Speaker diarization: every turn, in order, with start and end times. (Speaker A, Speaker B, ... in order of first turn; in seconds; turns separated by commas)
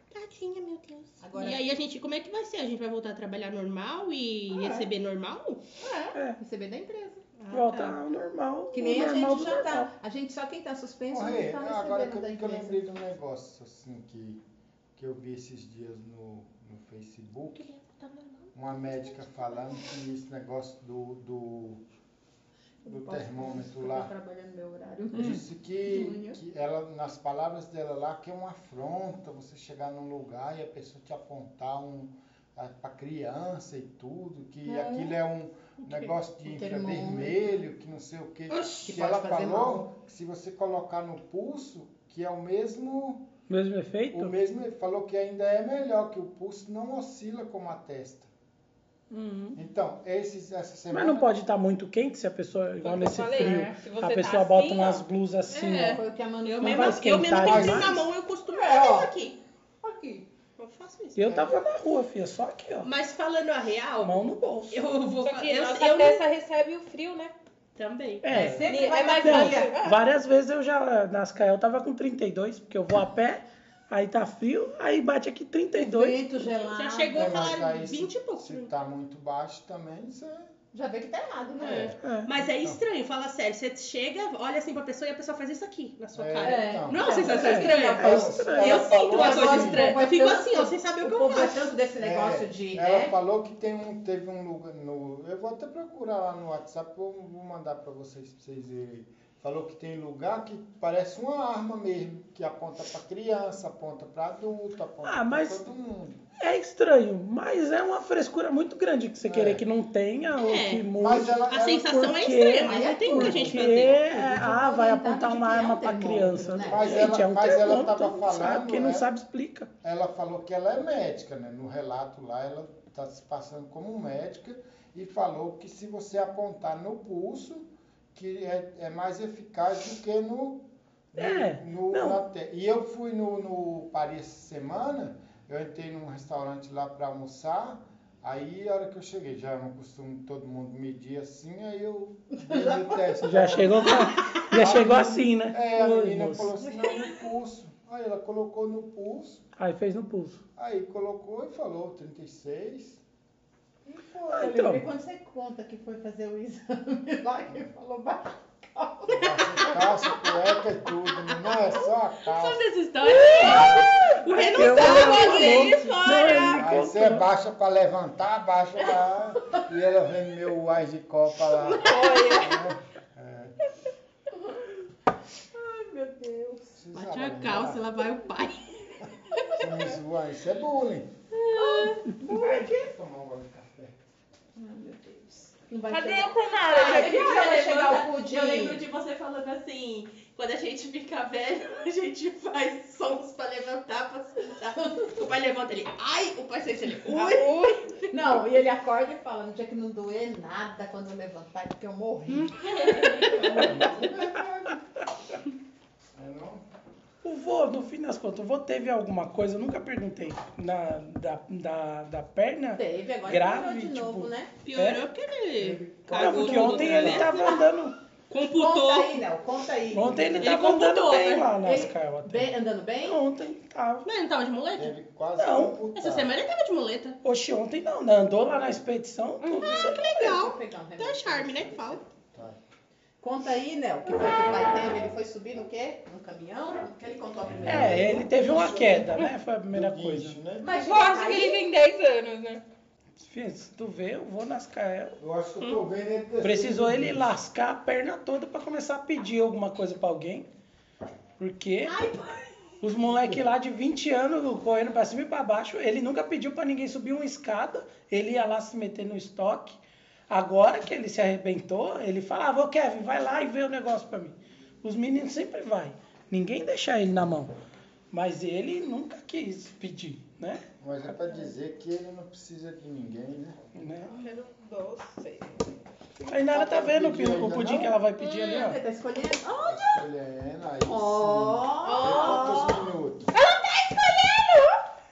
Speaker A: 0.1-5.6, Speaker B: 1.2-1.6, Speaker B: 4.5-4.9, Speaker B: 5.8-7.2, Speaker A: 7.4-8.0, Speaker C: 7.5-9.9, Speaker B: 8.7-12.9, Speaker D: 11.1-14.4, Speaker D: 15.0-17.7, Speaker A: 17.6-18.5, Speaker D: 18.5-21.8, Speaker B: 22.8-26.4, Speaker D: 22.9-24.1, Speaker A: 25.1-25.4, Speaker D: 25.1-43.3, Speaker B: 34.7-35.1, Speaker B: 36.5-37.4, Speaker A: 38.5-38.9, Speaker B: 38.8-39.9, Speaker C: 43.5-44.4, Speaker D: 44.1-48.3, Speaker C: 49.1-49.6, Speaker D: 49.5-51.3, Speaker C: 50.9-56.0, Speaker E: 52.8-55.0, Speaker A: 55.5-59.4, Speaker B: 55.7-57.7, Speaker C: 56.6-58.0, Speaker D: 57.4-57.9, Speaker B: 58.5-59.1, Speaker B: 59.8-60.3, Speaker A: 60.6-61.3, Speaker C: 61.2-62.9, Speaker D: 61.2-61.6, Speaker A: 62.8-64.2, Speaker C: 64.0-64.8, Speaker A: 64.7-66.2, Speaker E: 65.2-67.4, Speaker A: 67.8-68.3, Speaker C: 68.2-76.2, Speaker D: 68.3-68.6, Speaker B: 68.3-69.8, Speaker E: 68.6-70.0, Speaker B: 75.8-77.5, Speaker A: 76.7-78.7, Speaker D: 77.2-80.5, Speaker B: 80.7-81.9, Speaker D: 81.6-82.8, Speaker A: 81.7-91.7, Speaker C: 82.0-82.3, Speaker D: 86.1-87.1, Speaker B: 86.4-93.2, Speaker C: 87.3-89.4, Speaker D: 88.0-90.0, Speaker D: 92.0-106.2, Speaker C: 105.0-105.6, Speaker C: 106.4-119.7, Speaker D: 109.2-109.6, Speaker A: 110.4-110.9, Speaker D: 111.0-112.1, Speaker A: 111.5-114.1, Speaker B: 112.6-116.9, Speaker D: 116.7-119.1, Speaker D: 119.8-149.4, Speaker C: 131.2-132.2, Speaker B: 142.4-143.8, Speaker C: 143.2-146.6, Speaker C: 149.6-150.4, Speaker D: 150.6-153.0, Speaker B: 153.9-159.9, Speaker C: 154.3-154.8, Speaker D: 159.2-162.7, Speaker A: 161.7-166.7, Speaker D: 163.5-163.9, Speaker E: 163.5-166.0, Speaker C: 164.4-167.2, Speaker D: 166.1-173.6, Speaker E: 171.7-172.7, Speaker B: 175.5-176.8, Speaker D: 176.8-177.9, Speaker A: 176.9-179.6, Speaker D: 179.6-181.1, Speaker E: 181.5-181.9, Speaker B: 181.5-182.7, Speaker D: 182.2-184.0, Speaker B: 184.6-188.8, Speaker E: 185.9-187.7, Speaker A: 186.7-198.1, Speaker B: 194.8-195.1, Speaker E: 197.2-197.8, Speaker B: 198.1-204.0, Speaker A: 202.3-203.6, Speaker D: 203.4-204.8, Speaker D: 206.2-206.7, Speaker C: 207.2-215.1, Speaker B: 212.7-214.5, Speaker A: 214.7-217.4, Speaker D: 215.6-217.3, Speaker C: 216.1-218.0, Speaker B: 217.3-217.6, Speaker A: 218.3-219.2, Speaker B: 218.5-220.5, Speaker C: 219.9-222.5, Speaker A: 220.4-221.6, Speaker B: 221.6-223.2, Speaker C: 223.0-224.1, Speaker A: 224.0-225.0, Speaker D: 224.8-226.4, Speaker C: 225.4-225.8, Speaker A: 225.9-227.2, Speaker C: 227.2-230.1, Speaker E: 229.5-229.8, Speaker A: 229.7-232.0, Speaker B: 230.1-232.1, Speaker D: 232.3-232.6, Speaker B: 233.2-238.3, Speaker C: 237.7-240.4, Speaker D: 237.7-240.9, Speaker B: 240.6-241.7, Speaker E: 240.7-242.6, Speaker C: 243.2-245.2, Speaker D: 245.2-247.4, Speaker C: 246.4-250.5, Speaker C: 251.4-252.0, Speaker B: 251.9-252.5, Speaker C: 252.8-267.5, Speaker D: 253.0-253.4, Speaker C: 268.1-271.5, Speaker D: 270.8-274.0, Speaker C: 273.8-274.1, Speaker E: 274.1-275.7, Speaker D: 276.2-278.0, Speaker C: 276.3-278.8, Speaker E: 278.2-278.6, Speaker B: 278.2-280.0, Speaker D: 279.6-283.3, Speaker B: 280.8-282.9, Speaker E: 281.8-282.6, Speaker E: 283.3-284.8